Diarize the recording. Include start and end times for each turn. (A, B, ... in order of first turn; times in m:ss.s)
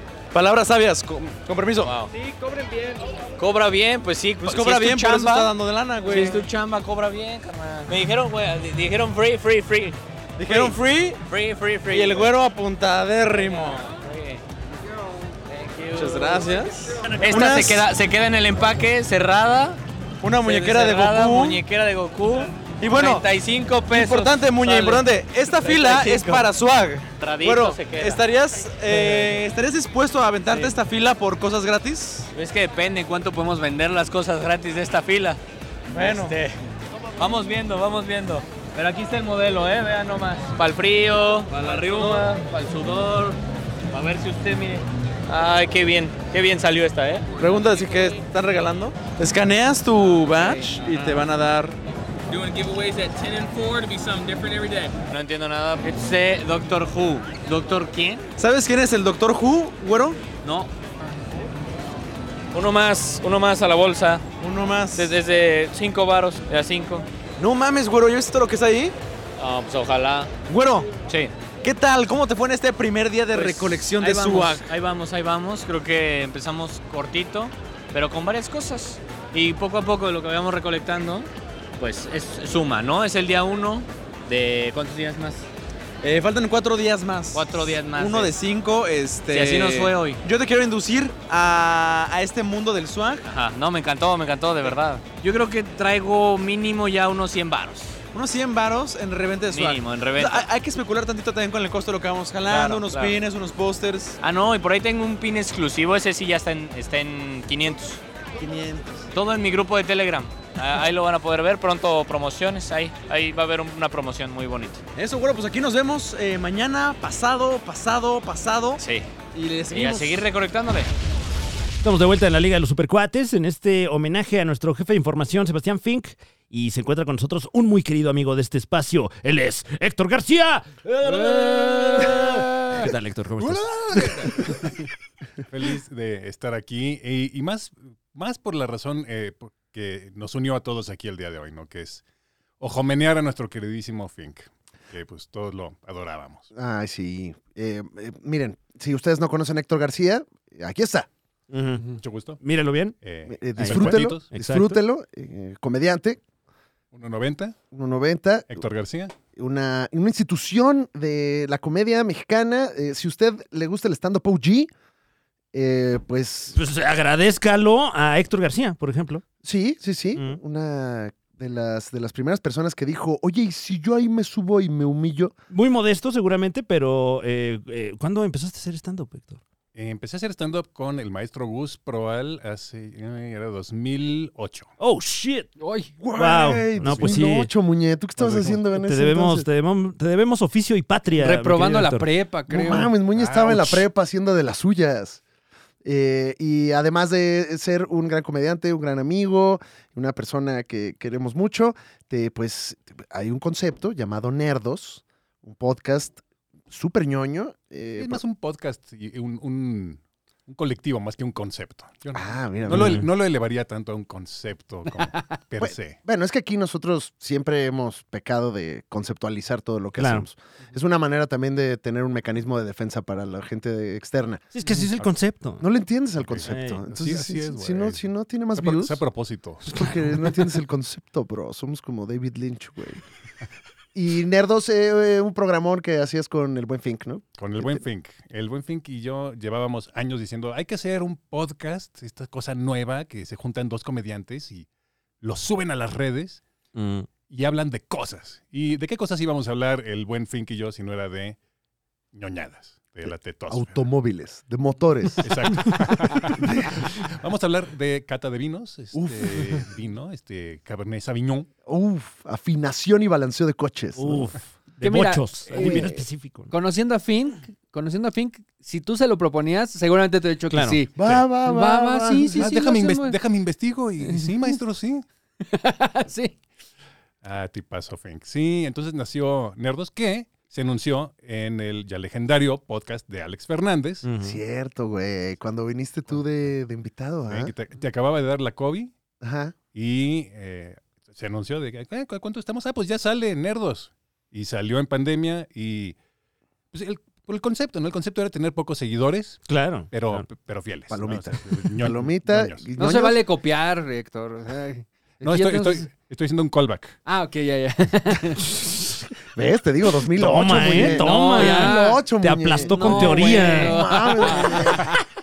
0:00.3-0:01.9 A
0:01.8-0:02.1 B
0:02.2-0:03.1 C
0:03.4-0:05.5 B
0:04.4-0:06.4 A
0:06.0-0:12.3 B
0:10.4-0:11.2 A
0:11.9-0:13.8 A
0:13.4-0:14.4 B
0:15.5-0:19.8 B
0:15.9-0:17.8 A
0:20.2-0:21.6 A
0:20.4-0:26.5 B
0:22.8-0:23.2 A
0:23.9-0:32.3 A
0:27.2-0:28.2 B
0:28.9-0:29.4 B
0:30.5-0:30.8 B
0:32.3-0:35.4 B
0:35.9-0:36.6 B
0:35.9-0:36.4 A
0:37.2-0:43.4 B
0:43.9-0:47.3 B
0:47.4-0:51.7 A
0:50.3-0:51.3 B
0:52.3-0:54.9 C
0:55.1-0:58.3 B
0:58.4-1:00.2 A
1:00.4-1:00.7 B
1:02.5-1:04.2 B
1:04.4-1:05.1 A
1:05.0-1:07.0 B
1:07.4-1:08.9 A
1:09.4-1:10.3 B
1:10.5-1:10.9 A
1:11.1-1:11.3 B
1:11.6-1:14.6 A
1:13.3-1:25.4 B
1:26.0-1:33.2 A
1:27.3-1:28.3 B
1:29.3-1:30.2 B
1:33.2-1:38.0 B
1:38.1-1:44.2 A
1:39.5-1:40.5 B
1:42.4-1:43.2 B
1:44.2-1:48.0 B
1:48.4-1:49.0 A
1:49.1-1:54.8 B
1:55.0-1:58.8 A
1:58.8-1:59.1 B
1:59.3-2:00.2 A
1:59.7-2:00.9 B
2:01.8-2:14.5 D
2:13.4-2:14.8 E
2:15.5-2:22.0 E
2:22.6-2:26.5 E
2:26.5-2:31.1 F
2:31.5-2:33.0 D
2:32.0-2:32.4 E
2:33.0-2:34.3 E
2:33.2-2:36.2 F
2:33.5-2:34.8 D
2:36.9-2:37.6 E
2:37.7-2:38.6 F
2:38.5-2:39.1 E
2:39.3-2:44.7 F
2:45.5-2:46.6 F
2:46.5-2:49.2 D
2:49.4-2:55.3 F
2:55.5-2:59.4 D
2:59.7-3:04.7 E
3:04.8-3:05.5 D
3:05.6-3:05.9 G
3:06.0-3:09.5 F
3:06.1-3:07.5 D
3:06.9-3:07.2 E
3:08.2-3:08.6 E
3:08.5-3:12.1 D
3:11.2-3:12.9 G
3:12.5-3:15.2 F
3:13.1-3:13.8 E
3:15.8-3:28.2 F
3:28.0-3:36.0 E
3:32.1-3:33.0 F
3:32.7-3:33.1 D
3:35.6-3:44.5 F
3:40.0-3:40.2 D
3:44.5-3:45.6 D
3:45.6-3:49.0 F
3:46.2-3:48.0 E
3:46.4-3:46.8 D
3:48.5-3:49.6 E
3:49.6-3:53.0 F
3:49.7-3:50.0 D
3:53.9-3:57.8 F
3:57.4-4:04.7 E
4:05.2-4:06.4 E
4:06.7-4:07.1 D
4:07.2-4:11.4 E
4:12.1-4:13.8 E
4:13.5-4:16.7 F
4:15.2-4:21.5 E
4:18.9-4:19.6 F
4:21.6-4:24.3 F
4:24.0-4:26.5 D
4:24.8-4:33.2 G
4:25.5-4:25.9 F
4:30.5-4:30.8 D
4:31.0-4:32.7 F
4:31.0-4:31.2 E
4:32.4-4:35.0 E
4:34.0-4:34.5 G
4:35.4-4:36.4 G
4:37.2-4:44.1 E
4:44.0-4:44.4 D
4:44.2-4:47.5 F
4:47.2-4:48.9 E
4:49.2-4:49.6 F
4:49.7-4:56.0 E
4:56.7-5:02.6 E
4:59.4-5:00.2 D
5:00.9-5:03.2 F
5:02.8-5:05.9 G
5:05.2-5:07.0 E
5:07.0-5:08.5 G
5:09.4-5:14.9 F
5:10.1-5:13.8 D
5:10.5-5:12.0 G
5:12.6-5:14.9 G